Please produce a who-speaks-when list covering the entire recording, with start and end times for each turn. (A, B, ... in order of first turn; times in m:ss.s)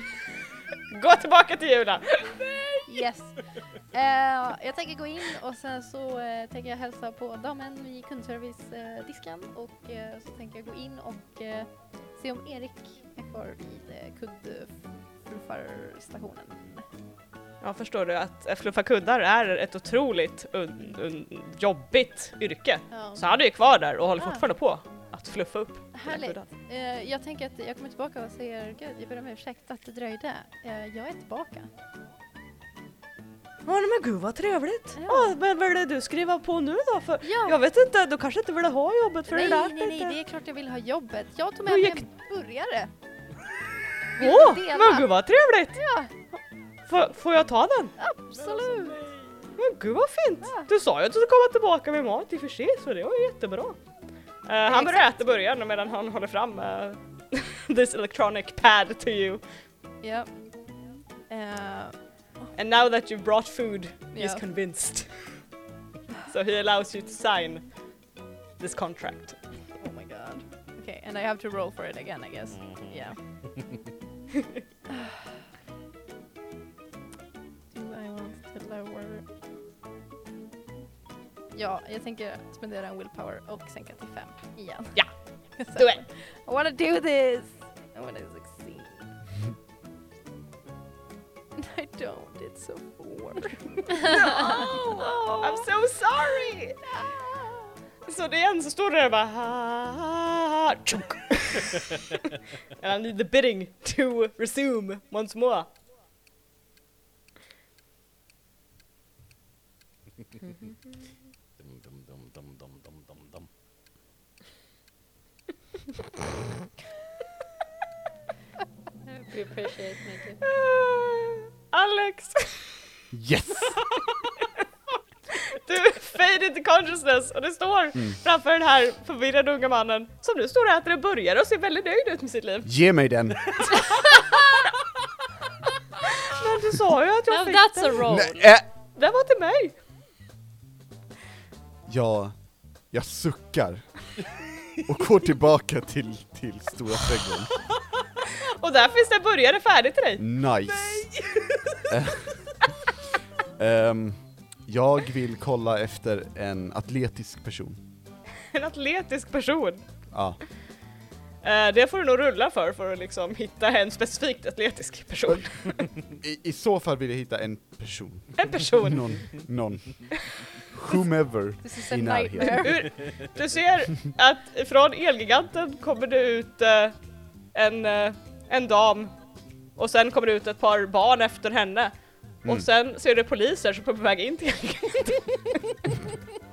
0:00.9-0:02.8 A
0:02.9-0:03.4 B
0:03.9-0:16.8 B
0:17.6-0:26.5 A
0:22.9-0:23.2 B
0:24.2-0:24.4 B
0:25.9-0:31.7 B
0:33.6-0:40.2 A
0:35.0-0:35.4 B
0:37.2-0:37.6 B
0:39.3-0:42.9 B
0:41.6-0:42.0 A
0:44.2-0:45.1 B
0:44.2-0:45.8 A
0:45.8-0:46.1 B
0:46.9-0:48.0 A
0:48.0-0:49.0 B
0:48.4-0:49.5 C
0:49.6-0:53.8 A
0:54.5-0:59.4 A
0:54.7-0:55.1 B
1:00.0-1:00.3 B
1:01.3-1:02.5 B
1:02.6-1:05.1 A
1:04.1-1:04.4 B
1:06.3-1:07.6 A
1:08.6-1:09.4 A
1:09.8-1:13.2 B
1:12.6-1:13.1 C
1:14.9-1:15.2 B
1:17.7-1:19.3 B
1:21.5-1:24.9 B
1:25.6-1:29.1 B
1:25.8-1:26.0 A
1:31.6-1:35.6 B
1:34.0-1:35.2 D
1:34.0-1:36.8 A
1:38.1-1:42.1 A
1:42.8-1:45.7 A
1:50.4-1:50.8 A
1:51.6-1:53.5 C
1:59.1-2:00.4 D
2:00.4-2:02.7 A
2:03.1-2:03.8 E
2:05.3-2:12.7 A
2:12.6-2:13.6 E
2:13.6-2:14.6 A
2:16.0-2:18.1 A
2:17.3-2:18.5 D
2:18.1-2:18.7 E
2:19.0-2:19.8 A
2:21.9-2:22.4 E
2:22.9-2:23.9 E
2:24.8-2:27.6 E
2:28.3-2:30.2 A
2:30.2-2:31.1 E
2:30.8-2:31.5 C
2:31.9-2:32.3 E
2:33.6-2:37.8 E
2:38.5-2:39.8 A
2:40.1-2:40.4 E
2:41.4-2:45.9 A
2:46.1-2:50.0 E
2:48.4-2:49.2 A
2:50.7-2:52.8 E
2:51.6-2:52.9 B
2:52.4-2:57.0 A
2:57.5-2:59.1 A
2:59.8-3:01.9 A
3:02.4-3:06.0 A